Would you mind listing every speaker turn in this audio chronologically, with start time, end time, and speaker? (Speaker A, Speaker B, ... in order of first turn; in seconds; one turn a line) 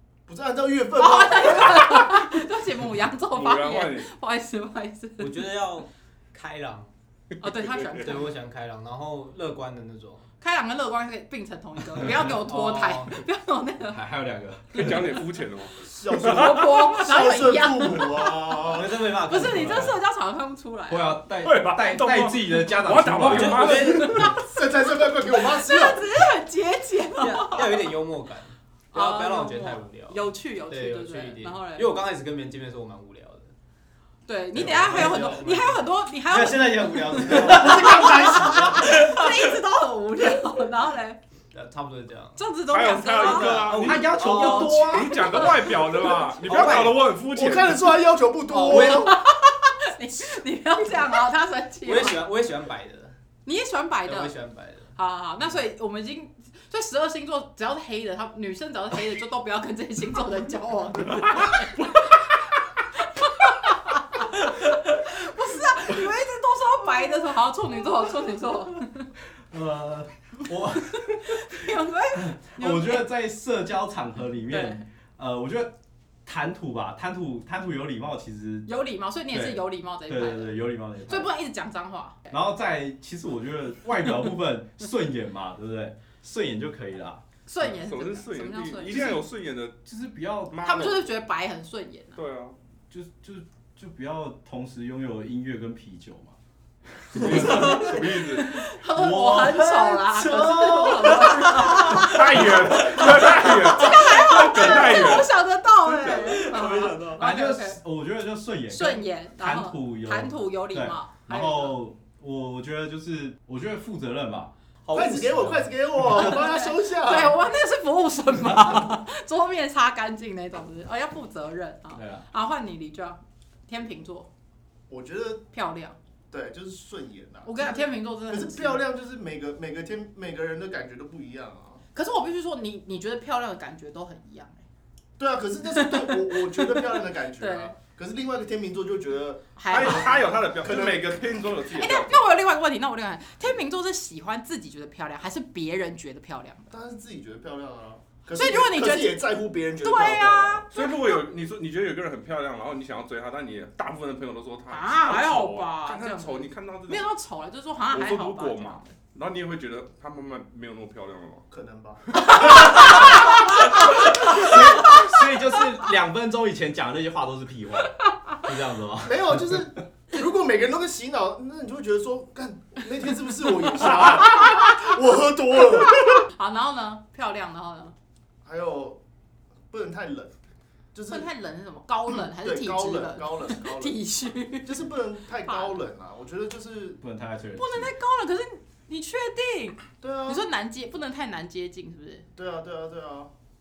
Speaker A: 0.3-1.8
Speaker B: 0.9-5.5
Speaker C: 3.3-4.1
Speaker D: 5.2-6.9
Speaker B: 7.4-8.3
Speaker C: 7.4-8.1
Speaker D: 8.0-10.3
Speaker B: 10.4-14.0
Speaker D: 12.0-13.2
Speaker E: 13.9-15.2
Speaker C: 14.7-16.9
Speaker A: 15.8-19.0
Speaker B: 16.2-21.2
Speaker D: 18.7-20.0
Speaker E: 19.4-19.9
Speaker E: 20.9-23.9
Speaker C: 21.4-24.3
Speaker D: 23.1-24.3
Speaker A: 23.9-26.1
Speaker B: 23.9-27.9
Speaker D: 27.2-33.5
Speaker B: 28.9-31.9
Speaker B: 34.3-41.2
Speaker D: 34.5-39.2
Speaker E: 34.6-35.3
Speaker A: 34.6-35.4
Speaker E: 36.3-38.9
Speaker A: 37.5-38.6
Speaker D: 41.5-42.5
Speaker B: 42.4-45.7
Speaker C: 42.7-48.0
Speaker D: 43.1-45.4
Speaker E: 43.7-45.6
Speaker D: 46.4-47.1
Speaker A: 47.3-49.2
Speaker B: 48.5-52.2
Speaker D: 48.5-48.9
Speaker D: 51.8-53.1
Speaker B: 53.5-54.3
Speaker D: 54.0-54.9
Speaker B: 54.9-62.2
Speaker C: 61.1-62.1
Speaker B: 63.0-69.1
Speaker E: 69.5-71.6
Speaker B: 70.8-73.1
Speaker E: 72.1-75.7
Speaker B: 74.5-74.8
Speaker E: 76.2-78.7
Speaker B: 78.7-82.3
Speaker E: 79.3-81.3
Speaker E: 82.3-87.2
Speaker B: 87.5-89.2
Speaker C: 87.7-89.8
Speaker E: 89.8-90.8
Speaker C: 90.5-91.1
Speaker B: 90.6-92.2
Speaker C: 92.1-92.5
Speaker E: 92.9-96.3
Speaker E: 97.1-97.9
Speaker C: 97.1-98.6
Speaker B: 97.3-107.8
Speaker E: 98.8-103.5
Speaker C: 101.9-105.3
Speaker A: 105.8-107.2
Speaker E: 107.1-114.5
Speaker B: 108.7-111.8
Speaker D: 114.8-115.5
Speaker A: 114.9-117.4
Speaker E: 115.2-116.2
Speaker B: 116.1-124.3
Speaker E: 118.4-118.8
Speaker E: 121.9-122.2
Speaker A: 124.9-125.4
Speaker B: 125.5-126.0
Speaker A: 126.3-131.8
Speaker B: 127.4-128.8
Speaker B: 131.9-134.6
Speaker A: 135.2-141.5
Speaker B: 135.8-137.7
Speaker B: 139.6-140.3
Speaker C: 139.7-142.3
Speaker B: 141.7-146.8
Speaker A: 146.7-150.7
Speaker B: 148.3-149.2
Speaker B: 149.8-151.3
Speaker C: 150.7-157.1
Speaker B: 154.7-158.9
Speaker C: 157.9-161.4
Speaker A: 161.5-162.0
Speaker C: 162.2-163.1
Speaker B: 162.3-165.1
Speaker A: 162.7-163.7
Speaker E: 164.2-169.7
Speaker A: 164.3-164.9
Speaker A: 169.0-176.2
Speaker B: 176.2-177.9
Speaker A: 178.4-179.0
Speaker A: 179.7-180.3
Speaker A: 180.9-181.3
Speaker B: 181.1-184.8
Speaker A: 182.3-184.0
Speaker A: 184.6-187.0
Speaker B: 185.4-185.8
Speaker E: 187.0-187.9
Speaker B: 187.6-192.2
Speaker A: 190.0-190.5
Speaker A: 192.3-193.3